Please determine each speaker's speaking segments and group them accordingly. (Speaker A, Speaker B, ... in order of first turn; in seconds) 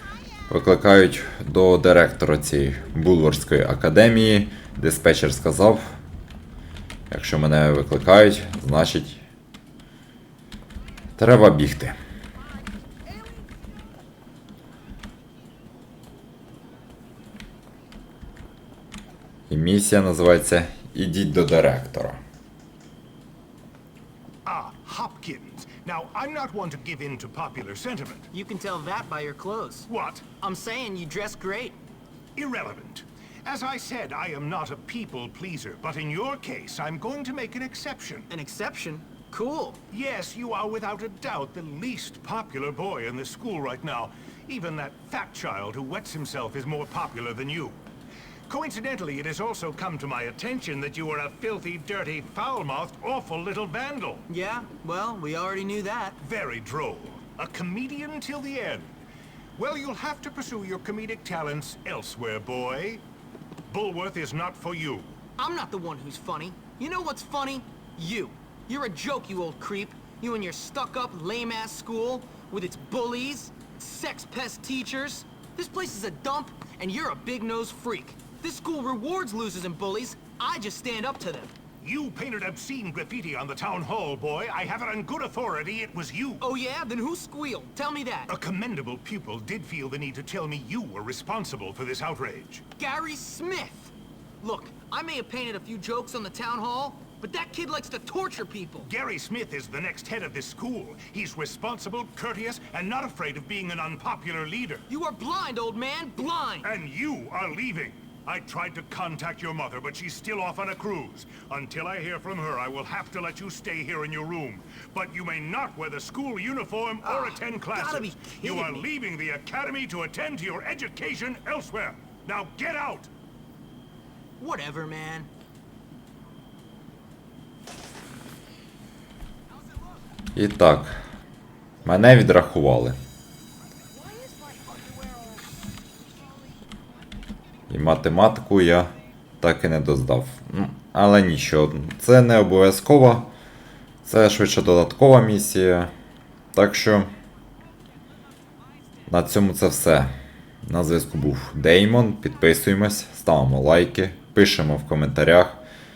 Speaker A: 0.5-5.8, 7.1-9.2, 11.2-12.0, 19.5-22.2, 130.3-131.0, 131.8-133.0, 137.7-143.3, 144.0-145.9, 146.5-147.1, 149.1-150.1, 150.6-155.6
Speaker B: 24.4-28.3, 29.9-30.3, 32.4-38.3, 39.9-47.8, 48.5-54.3, 56.2-59.0, 59.6-63.0, 63.7-65.2, 81.8-86.5, 88.3-92.7, 98.8-104.9, 106.6-123.1
Speaker C: 28.3-31.8, 38.3-39.8, 54.3-56.2, 65.4-81.5, 86.4-88.3, 92.8-98.9, 104.9-106.7, 117.0-118.8, 124.4-125.3